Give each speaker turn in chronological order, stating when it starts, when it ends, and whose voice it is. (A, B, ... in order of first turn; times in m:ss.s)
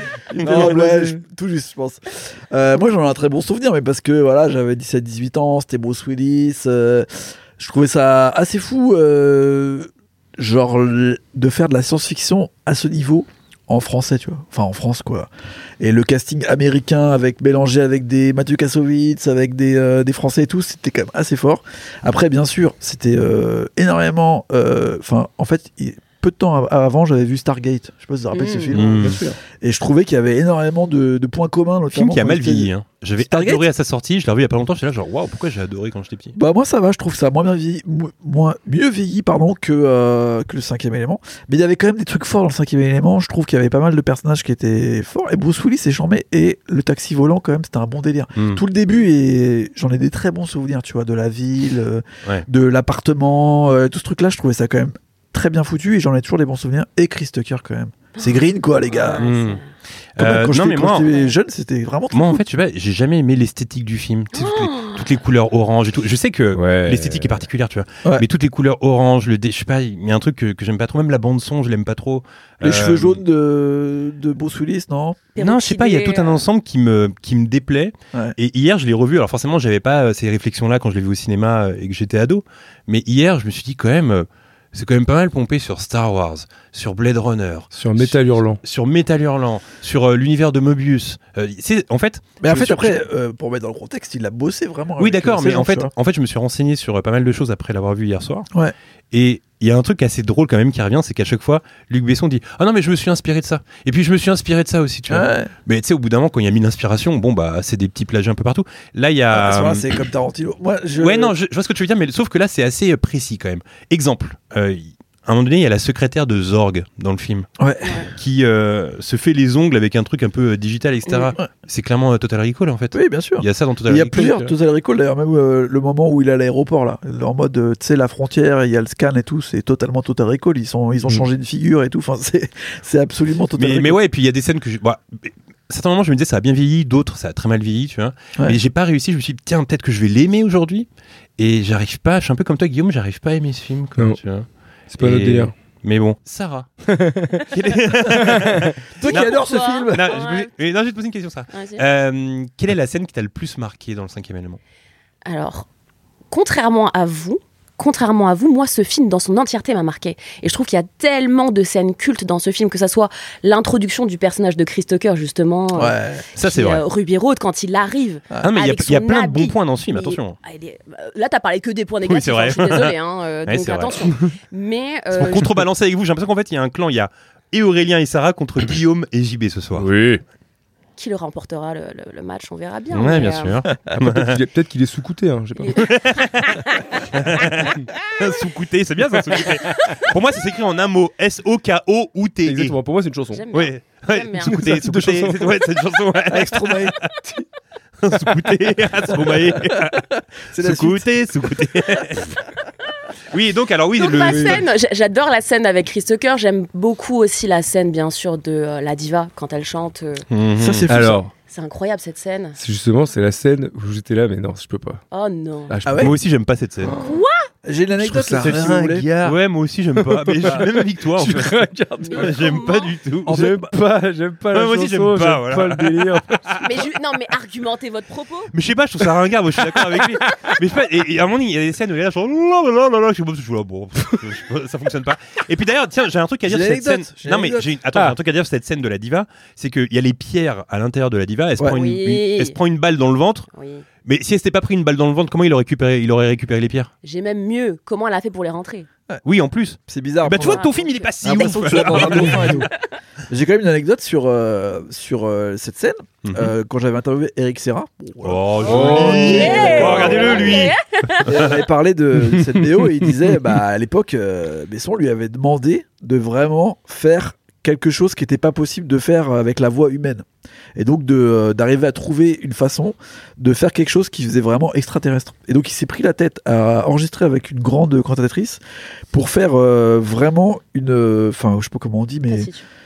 0:00.4-0:00.8 A
0:00.4-0:33.6 B
0:00.4-0:01.2 C
0:28.3-0:28.7 D
0:28.7-0:29.2 A
0:28.8-0:29.4 C
0:31.9-0:36.4 A
0:36.3-0:59.3 B
0:48.3-0:48.6 A
0:58.2-0:59.6 D
0:59.2-0:59.6 A
1:00.2-1:01.1 A
1:00.2-1:02.4 B
1:02.1-1:13.2 A
1:04.3-1:05.0 D
1:06.5-1:07.3 C
1:12.6-1:15.2 B
1:15.4-1:16.4 D
1:15.4-1:33.0 A
1:27.7-1:28.6 C
1:32.4-1:35.9 B
1:35.0-1:38.5 A
1:39.1-1:49.9 A
1:45.1-1:45.5 B
1:49.3-1:51.3 B
1:51.0-1:57.5 A
1:57.6-1:58.1 B
1:58.1-2:04.5 A
2:01.1-2:01.3 D
2:02.9-2:14.0 B
2:13.6-2:20.9 A
2:21.4-2:26.7 A
2:24.9-2:25.5 C
2:26.9-2:27.4 C
2:27.5-2:34.6 A
2:28.2-2:28.7 C
2:29.0-2:30.1 B
2:29.0-2:30.5 D
2:31.5-2:31.8 D
2:35.2-2:35.7 D
2:36.3-2:55.6 D
2:45.7-2:46.2 B
2:46.4-2:46.8 A
2:48.4-2:50.4 A
2:52.1-2:52.9 A
2:53.5-2:54.1 A
2:55.1-2:59.9 A
2:59.8-3:00.2 C
3:01.0-3:03.5 D
3:02.9-3:04.4 A
3:03.9-3:05.9 C
3:05.6-3:06.8 D
3:05.8-3:06.5 A
3:07.1-3:12.8 A
3:12.4-3:13.4 C
3:13.3-3:14.6 D
3:13.5-3:17.1 A
3:14.4-3:15.6 C
3:16.3-3:17.0 B
3:18.0-3:22.4 A
3:19.2-3:21.1 B
3:23.3-3:24.6 A
3:24.0-3:30.2 D
3:24.3-3:24.6 B
3:30.3-3:31.1 A
3:30.6-3:31.2 B
3:30.9-3:31.3 C
3:31.5-3:32.6 D
3:32.6-3:35.0 C
3:35.1-3:35.8 D
3:35.7-3:36.2 C
3:35.8-3:36.1 B
3:36.0-3:36.9 A
3:36.8-3:37.2 C
3:37.0-3:37.5 D
3:37.6-3:39.1 B
3:38.0-3:39.4 C
3:38.2-3:43.5 A
3:39.9-3:42.6 C
3:42.0-3:42.9 D
3:43.2-3:46.7 C
3:43.2-3:43.7 B
3:44.5-3:46.6 A
3:46.6-3:48.5 D
3:48.5-4:03.5 A
3:49.8-3:50.5 C
3:56.4-3:57.7 B
4:01.7-4:02.6 D
4:03.5-4:03.8 D
4:04.0-4:06.9 A
4:07.0-4:08.9 D
4:09.2-4:12.6 A
4:09.9-4:10.7 B
4:10.4-4:11.1 D
4:11.2-4:12.7 B
4:13.3-4:20.7 B
4:16.2-4:16.5 A
4:18.2-4:21.6 A
4:18.7-4:20.1 C
4:18.7-4:21.4 D
4:21.2-4:42.5 B
4:22.2-4:23.1 C
4:42.3-4:42.6 D